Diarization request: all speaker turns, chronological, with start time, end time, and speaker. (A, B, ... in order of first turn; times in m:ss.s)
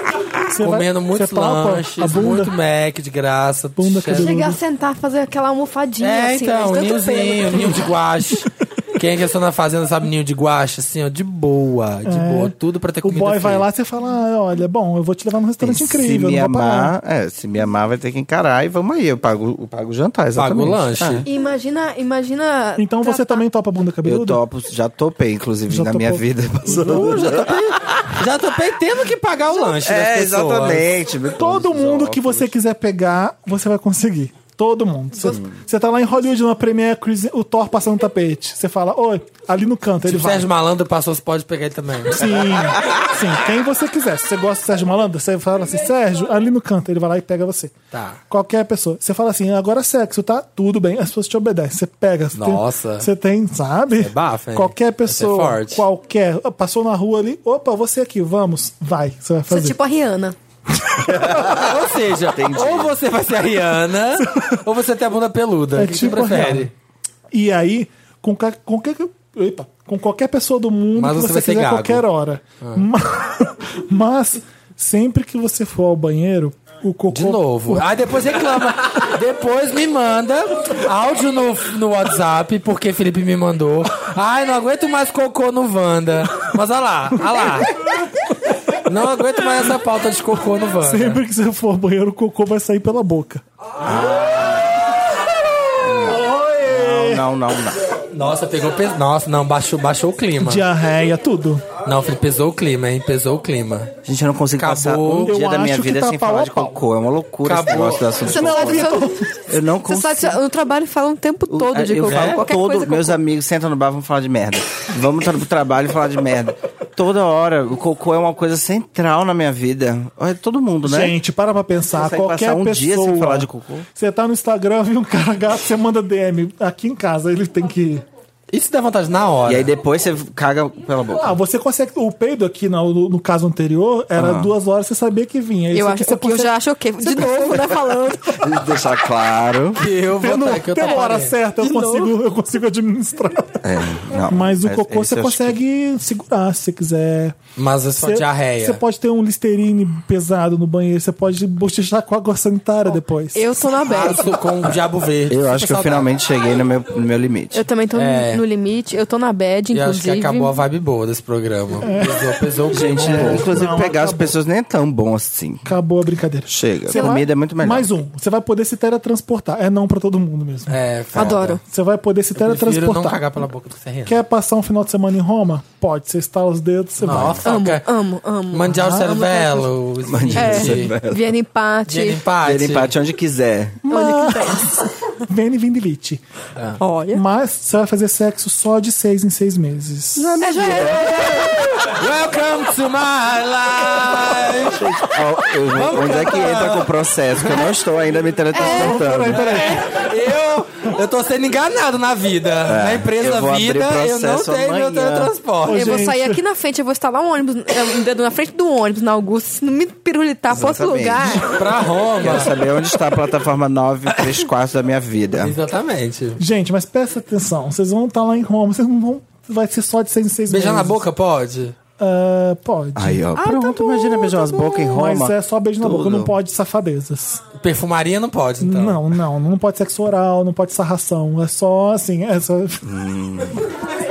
0:00.5-0:02.5 A
0:00.6-0:04.3 B
0:03.8-0:04.6 A
0:04.2-0:07.8 C
0:06.0-0:13.7 B
0:12.0-0:16.9 A
0:15.6-0:21.2 D
0:20.3-0:21.2 B
0:21.2-0:23.4 C
0:22.8-0:24.4 A
0:24.0-0:28.0 D
0:25.7-0:27.4 A
0:26.7-0:30.9 B
0:29.7-0:32.5 D
0:31.4-0:40.5 A
0:35.2-0:35.6 D
0:40.0-0:42.4 B
0:42.1-0:47.7 A
0:47.9-0:48.2 B
0:48.3-0:59.8 A
0:52.3-0:53.1 B
0:54.0-0:55.8 B
0:59.5-1:00.4 C
1:00.8-1:01.2 A
1:01.2-1:01.6 D
1:01.3-1:06.7 B
1:02.3-1:02.9 D
1:04.2-1:04.6 A
1:05.7-1:06.7 A
1:07.3-1:17.9 A
1:11.0-1:12.0 B
1:17.1-1:27.8 B
1:28.8-1:31.2 B
1:30.8-1:33.4 A
1:33.8-1:34.6 D
1:35.8-1:37.8 D
1:36.0-1:37.2 A
1:38.1-1:40.6 B
1:40.4-1:41.7 A
1:41.8-1:43.9 B
1:44.0-1:49.0 D
1:44.6-1:45.4 B
1:45.2-1:46.8 A
1:47.4-1:48.2 B
1:48.3-1:49.2 C
1:48.3-1:49.3 A
1:49.5-1:50.4 D
1:49.8-1:53.2 C
1:51.5-2:01.2 D
1:52.0-1:52.4 B
2:00.8-2:08.0 A
2:02.0-2:03.9 D
2:08.5-2:09.7 B
2:09.4-2:11.4 D
2:11.1-2:17.9 A
2:14.2-2:14.5 D
2:15.7-2:18.4 C
2:18.4-2:19.8 D
2:19.8-2:21.3 B
2:20.0-2:27.4 A
2:20.8-2:22.1 C
2:23.6-2:25.6 D
2:27.6-2:28.8 B
2:28.0-2:33.5 A
2:33.3-2:34.4 C
2:33.8-2:36.1 B
2:35.3-2:37.6 D
2:37.5-2:40.6 C
2:37.9-2:38.4 B
2:39.7-2:43.7 B
2:41.8-2:42.3 A
2:42.7-2:45.7 D
2:42.9-2:44.4 A
2:45.6-2:50.8 A
2:46.5-2:47.9 D
2:46.9-2:47.2 C
2:50.7-2:51.6 B
2:51.2-2:51.6 C
2:51.6-2:53.2 A
2:52.4-2:54.2 B
2:54.0-2:57.4 A
2:57.0-2:57.8 B
2:57.4-2:59.7 C
2:58.5-3:00.9 B
2:58.7-2:59.2 A
3:00.1-3:01.2 D
3:00.4-3:02.2 C
3:01.9-3:02.9 B
3:02.4-3:03.8 D
3:03.8-3:06.2 A
3:03.9-3:04.9 C
3:06.8-3:07.2 C
3:07.1-3:10.4 A
3:10.2-3:11.4 D
3:10.4-3:11.9 C
3:11.8-3:14.8 B
3:14.7-3:19.4 D
3:15.7-3:17.7 B
3:18.5-3:19.2 C
3:18.5-3:19.8 A
3:19.3-3:26.0 B
3:22.6-3:25.3 D
3:25.6-3:26.4 A
3:25.7-3:31.6 C
3:30.5-3:31.5 D
3:31.4-3:32.5 B
3:32.2-3:35.5 D
3:34.1-3:34.4 B
3:35.4-3:36.4 B
3:36.4-3:41.0 A
3:40.5-3:41.7 B
3:42.0-3:43.3 A
3:43.0-3:46.3 D
3:43.4-3:44.8 C
3:44.8-3:47.4 A
3:47.6-3:49.0 B
3:48.6-3:52.8 A
3:52.8-3:53.6 D